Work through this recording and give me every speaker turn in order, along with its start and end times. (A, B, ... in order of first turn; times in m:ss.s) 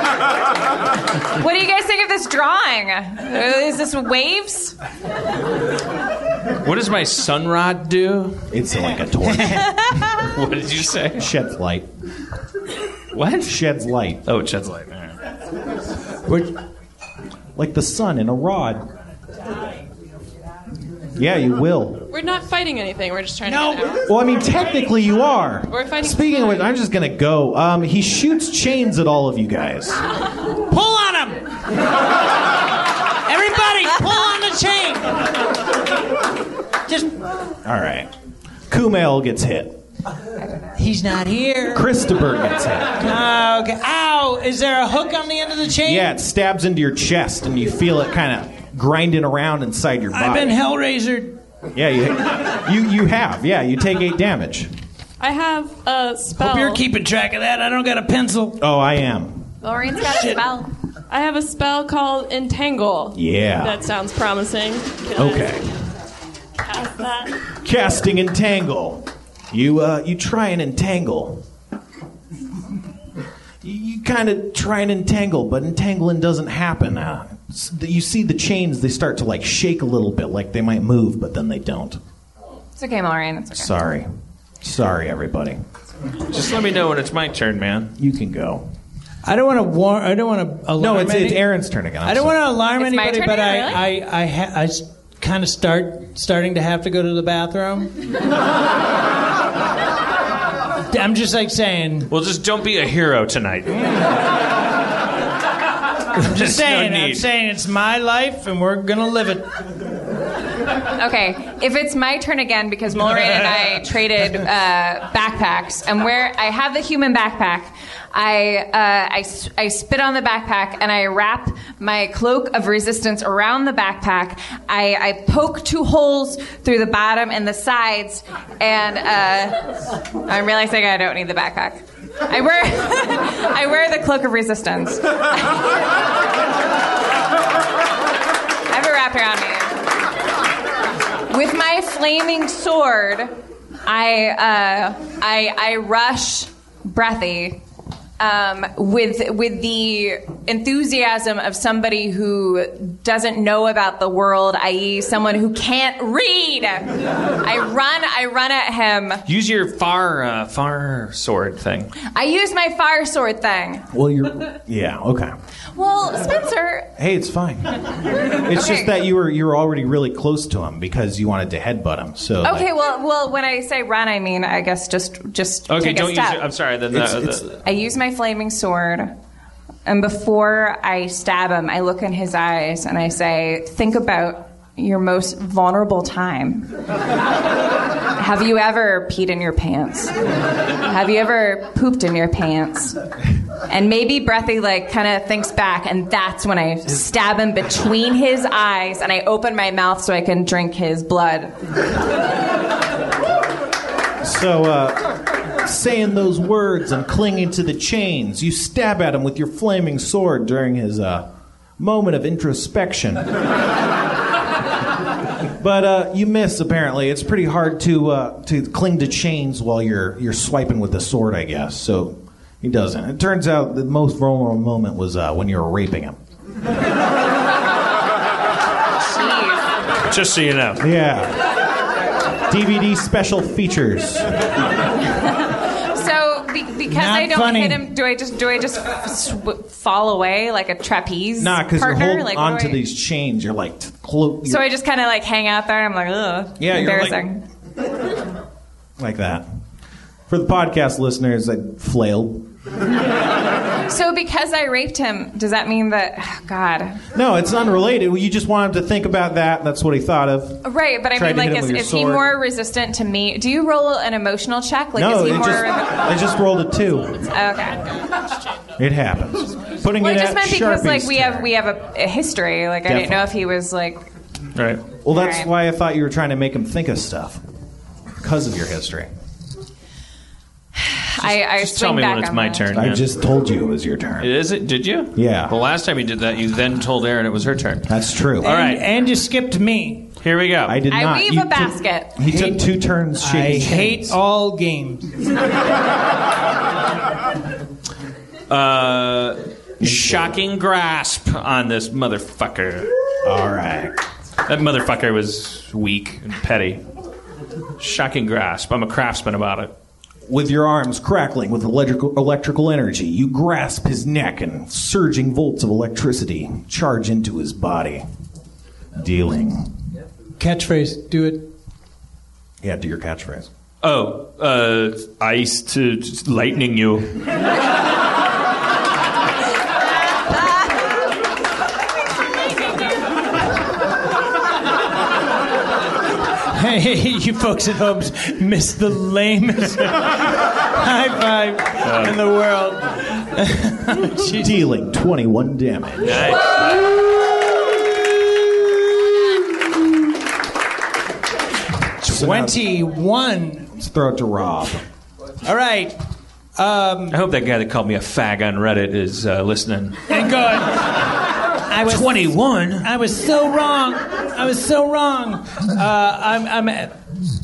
0:01.4-0:04.7 A
0:06.6-0:08.4 B
0:08.5-0:09.8 C
0:10.0-0:11.3 B
0:11.2-0:11.9 C
0:13.1-0:13.5 B
0:13.4-0:14.2 C
0:14.2-0:15.2 B
0:16.3-0:16.5 D
0:17.6-0:18.8 C
0:21.1-0:22.1 C
0:22.1-0:24.0 E
0:23.4-0:24.0 D
0:24.0-0:30.1 C
0:25.7-0:26.7 E
0:30.7-0:31.4 D
0:33.2-0:35.2 D
0:36.9-0:37.1 D
0:37.6-0:38.1 C
0:38.7-0:39.8 C
0:40.8-0:41.8 D
0:41.7-0:43.0 C
0:43.0-0:46.1 D
0:45.8-0:50.6 C
0:50.1-0:51.4 D
0:51.7-0:54.7 C
0:55.2-0:56.8 E
0:56.4-0:58.6 D
0:58.6-0:59.5 C
0:59.6-1:00.7 A
1:00.0-1:00.4 D
1:01.1-1:05.6 E
1:03.1-1:03.8 C
1:05.2-1:05.7 C
1:06.6-1:07.4 E
1:07.6-1:11.4 C
1:13.6-1:22.0 C
1:22.8-1:23.7 A
1:23.6-1:24.1 C
1:24.6-1:25.6 C
1:26.2-1:27.9 B
1:28.0-1:28.6 C
1:29.2-1:31.4 D
1:30.8-1:32.5 C
1:32.0-1:37.9 D
1:32.8-1:33.8 A
1:40.9-1:42.1 D
1:42.1-1:43.9 B
1:46.2-1:49.4 D
1:46.2-1:47.2 B
1:46.6-1:47.1 C
1:50.9-2:09.7 A
2:10.2-2:15.7 A
2:18.7-2:19.8 A
2:21.3-2:23.3 A
2:23.8-2:27.6 A
2:28.2-2:39.2 A
2:39.2-2:41.9 B
2:42.1-2:43.9 A
2:43.9-2:45.3 C
2:45.7-2:46.9 A
2:47.0-2:52.7 C
2:48.4-2:49.0 A
2:52.4-2:56.4 A
2:55.7-2:57.6 B
2:56.9-2:57.4 C
2:57.6-2:59.1 A
2:59.8-3:06.7 A
3:08.1-3:10.1 A
3:10.8-3:13.0 A
3:13.7-3:21.5 A
3:24.2-3:31.2 C
3:31.8-3:33.3 C
3:35.6-3:46.2 C
3:49.0-3:49.6 A
3:50.0-3:50.8 B
3:50.8-3:51.4 C
3:52.5-3:54.3 C
3:55.2-4:02.8 A
3:56.9-3:57.8 D
4:01.4-4:04.6 C
4:04.4-4:07.4 A
4:06.6-4:07.2 C
4:09.0-4:09.4 C
4:10.3-4:12.4 C
4:13.9-4:17.0 A
4:17.1-4:22.3 C
4:20.6-4:26.2 A
4:24.9-4:27.2 C
4:27.2-4:27.8 A
4:28.8-4:31.5 C
4:30.0-4:34.0 A
4:32.9-4:33.3 C
4:34.5-4:34.8 B
4:35.0-4:37.4 C
4:35.1-4:35.5 A
4:38.2-4:39.1 C
4:40.8-4:42.7 A
4:41.2-4:43.0 B
4:42.7-4:44.3 C
4:44.2-4:48.8 B
4:45.2-4:45.5 C
4:47.9-4:48.5 C
4:48.4-4:50.1 D
4:50.2-4:50.8 B
4:50.6-4:54.1 C
4:50.9-4:52.2 A
4:52.2-4:52.6 D
4:53.2-4:55.1 D
4:58.5-5:02.9 B
4:59.8-5:00.4 C
5:03.2-5:03.9 C
5:04.4-5:06.8 B
5:07.8-5:09.7 B
5:10.3-5:18.0 C
5:18.9-5:19.7 C
5:20.4-5:21.5 D
5:22.6-5:23.5 C
5:23.8-5:27.1 B
5:36.5-5:40.0 D
5:40.7-5:44.5 D
5:41.8-5:42.2 B
5:44.3-5:46.4 C
5:46.0-5:46.7 B
5:49.1-5:49.3 D
5:52.0-5:53.7 D
5:52.1-5:52.6 C
5:53.7-5:54.8 C
5:55.4-5:55.9 D
5:56.6-5:57.2 D
5:57.1-6:00.0 B
6:00.1-6:01.1 D
6:01.6-6:07.0 D
6:01.8-6:02.9 B